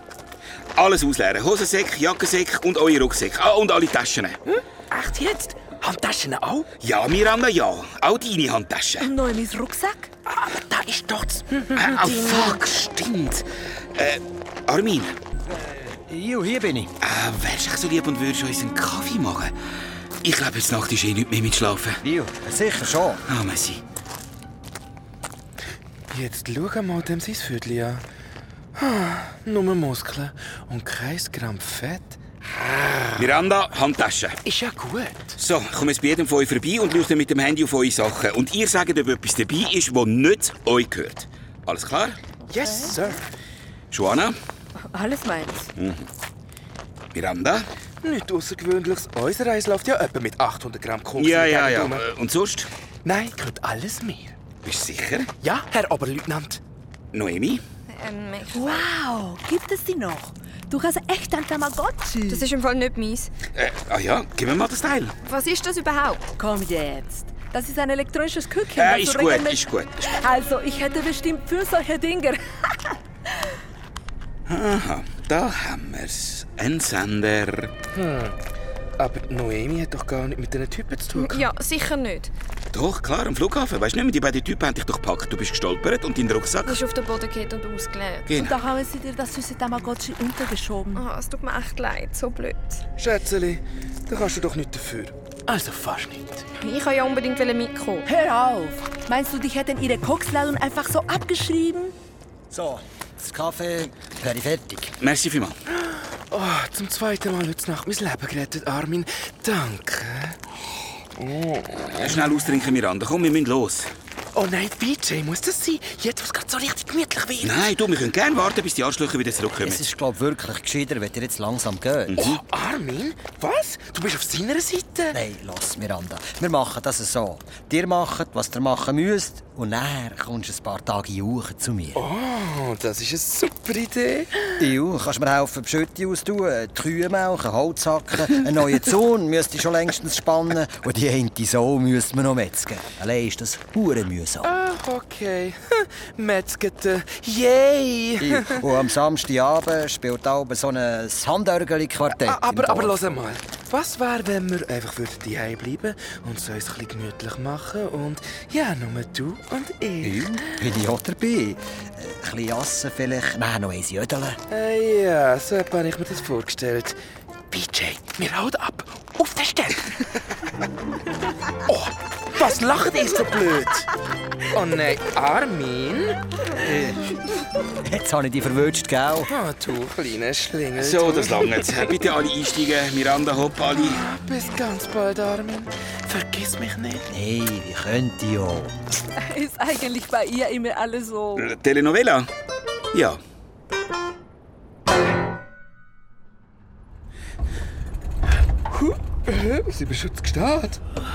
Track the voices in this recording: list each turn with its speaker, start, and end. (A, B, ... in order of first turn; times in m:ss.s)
0:00.8-0:04.4 A
0:04.5-0:06.7 B
0:06.8-0:09.1 A
0:09.0-0:10.1 C
0:10.3-0:12.6 B
0:11.7-0:15.2 A
0:15.5-0:16.9 D
0:17.0-0:19.5 A
0:20.2-0:22.0 A
0:22.0-0:23.2 D
0:23.3-0:23.8 A
0:26.1-0:28.0 B
0:28.8-0:33.3 B
0:33.2-0:34.4 A
0:34.4-0:35.4 B
0:35.4-0:42.2 A
0:42.5-0:43.2 B
0:43.9-0:44.4 A
0:44.9-0:45.7 C
0:45.8-0:46.1 A
0:47.1-0:47.7 A
0:48.0-0:52.0 B
0:51.2-0:52.7 A
0:53.0-0:54.4 B
0:54.6-0:55.3 A
0:55.4-0:56.6 B
0:57.1-0:57.6 A
0:57.9-0:58.9 E
0:58.5-1:02.4 C
1:02.3-1:03.3 E
1:03.6-1:05.2 A
1:05.2-1:06.3 E
1:06.4-1:12.7 C
1:08.8-1:10.0 A
1:14.5-1:17.7 A
1:17.9-1:18.4 B
1:19.0-1:21.5 B
1:21.2-1:22.3 E
1:22.7-1:26.8 A
1:26.6-1:28.3 E
1:28.3-1:28.5 A
1:28.3-1:31.0 C
1:30.9-1:32.8 E
1:33.0-1:36.4 B
1:36.6-1:38.1 E
1:38.1-1:41.9 C
1:42.5-1:44.9 D
1:45.0-1:45.6 A
1:45.8-1:50.4 B
1:51.2-1:52.4 B
1:52.0-1:53.9 A
1:54.3-1:57.8 B
1:57.4-1:59.9 A
1:59.6-2:02.3 D
2:02.1-2:02.4 A
2:02.2-2:05.2 B
2:05.1-2:12.1 D
2:11.9-2:14.6 B
2:14.6-2:24.5 D
2:24.4-2:28.7 B
2:28.2-2:33.0 D
2:32.2-2:40.4 B
2:40.0-2:44.4 D
2:44.5-2:47.0 B
2:47.5-2:50.0 B
2:51.7-2:53.9 B
2:54.5-2:56.2 B
2:56.6-2:57.1 D
2:57.8-2:59.3 D
2:59.3-3:01.8 B
3:00.8-3:04.0 A
3:03.8-3:07.1 B
3:07.1-3:08.7 D
3:09.2-3:11.5 C
3:11.4-3:12.3 A
3:12.9-3:13.2 A
3:18.7-3:20.8 B